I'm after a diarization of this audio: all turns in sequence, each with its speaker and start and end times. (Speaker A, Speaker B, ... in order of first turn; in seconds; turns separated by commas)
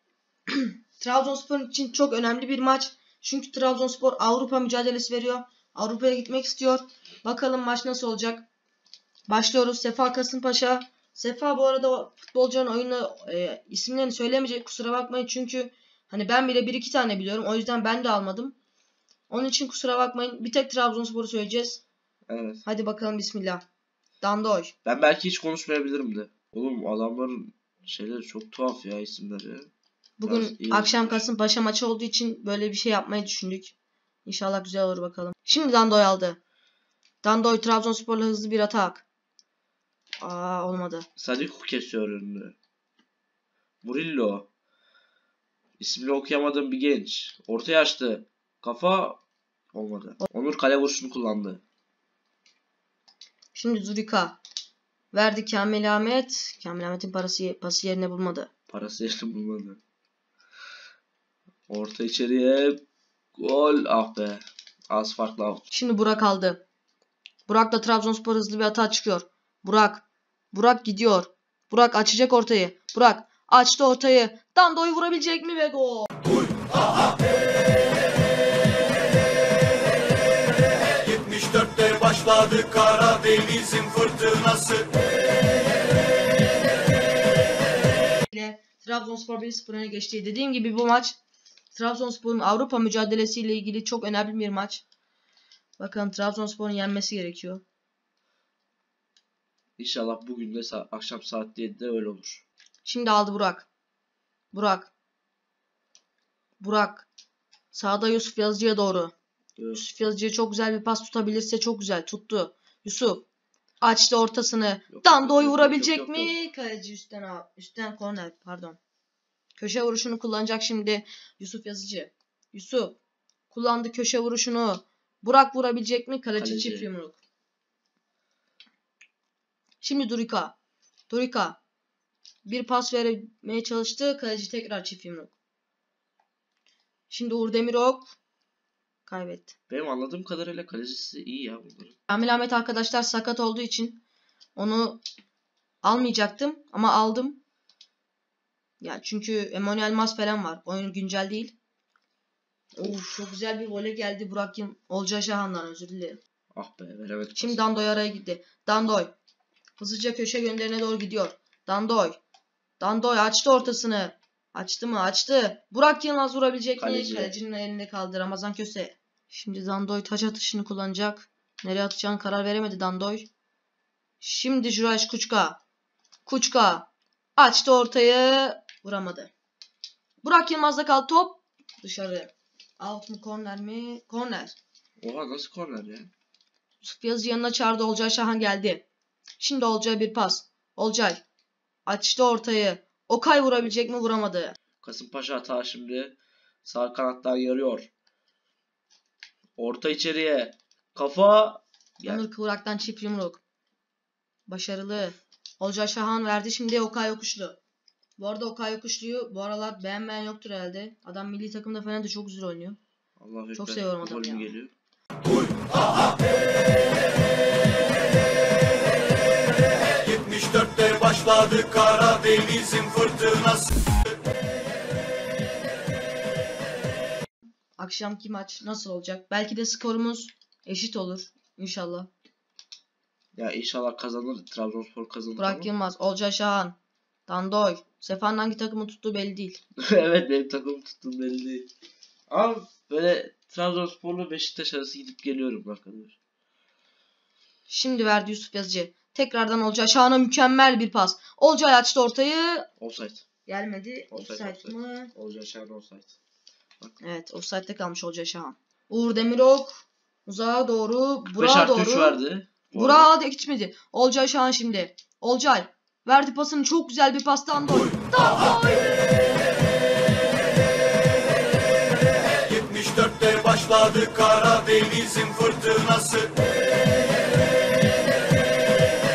Speaker A: 0.5-8.5, Speaker A: 9.3-18.6, Speaker A: 19.3-21.8, Speaker B: 22.3-22.6, Speaker A: 22.6-23.6, Speaker A: 24.2-24.7, Speaker B: 24.9-29.7, Speaker A: 30.2-33.8, Speaker B: 30.2-31.2, Speaker A: 34.3-36.4, Speaker A: 37.2-39.1, Speaker A: 40.2-41.1, Speaker B: 41.2-42.5, Speaker B: 43.8-44.5, Speaker B: 45.8-49.2, Speaker B: 49.7-51.6, Speaker A: 53.5-54.4, Speaker A: 55.1-58.5, Speaker B: 58.7-59.8, Speaker B: 61.7-62.8, Speaker B: 63.4-65.6, Speaker A: 65.7-66.6, Speaker A: 67.5-76.1, Speaker C: 81.1-84.9, Speaker A: 88.3-91.2, Speaker A: 91.7-94.8, Speaker A: 95.8-97.6, Speaker B: 99.8-102.4, Speaker A: 102.8-103.7, Speaker A: 104.5-104.9, Speaker A: 106.6-107.1, Speaker A: 107.7-109.1, Speaker B: 109.6-109.8, Speaker A: 109.7-113.2, Speaker A: 113.8-118.8, Speaker B: 114.9-116.3, Speaker A: 119.6-123.0, Speaker A: 123.5-127.2, Speaker B: 126.4-126.9, Speaker A: 129.8-130.6, Speaker A: 131.1-131.6, Speaker A: 132.5-135.3, Speaker A: 137.1-138.2, Speaker A: 139.1-139.6, Speaker B: 139.7-142.0, Speaker A: 142.1-144.0, Speaker A: 144.6-145.0, Speaker A: 145.8-147.4, Speaker A: 148.8-151.6, Speaker A: 152.7-156.2, Speaker B: 152.8-153.1, Speaker B: 156.5-157.6, Speaker A: 157.4-159.1, Speaker A: 159.8-162.2, Speaker A: 162.8-173.3, Speaker B: 166.8-167.3, Speaker A: 174.2-175.6, Speaker A: 176.3-179.3, Speaker A: 180.2-184.6, Speaker B: 185.0-186.1, Speaker A: 186.8-188.8, Speaker A: 189.4-191.2, Speaker A: 191.9-194.6, Speaker B: 194.8-197.9, Speaker B: 199.6-202.2, Speaker A: 202.0-203.4, Speaker A: 204.5-207.6, Speaker A: 208.2-212.8, Speaker B: 213.2-214.7, Speaker A: 213.6-214.5, Speaker C: 220.0-223.7, Speaker A: 227.8-232.1, Speaker B: 233.3-235.7, Speaker A: 235.4-239.6, Speaker B: 239.8-241.7, Speaker B: 242.3-246.2, Speaker A: 247.7-252.7, Speaker B: 252.8-253.2, Speaker A: 253.5-255.1, Speaker B: 254.1-256.1, Speaker A: 257.0-262.2, Speaker B: 261.4-263.1, Speaker A: 262.7-269.1, Speaker C: 272.5-276.3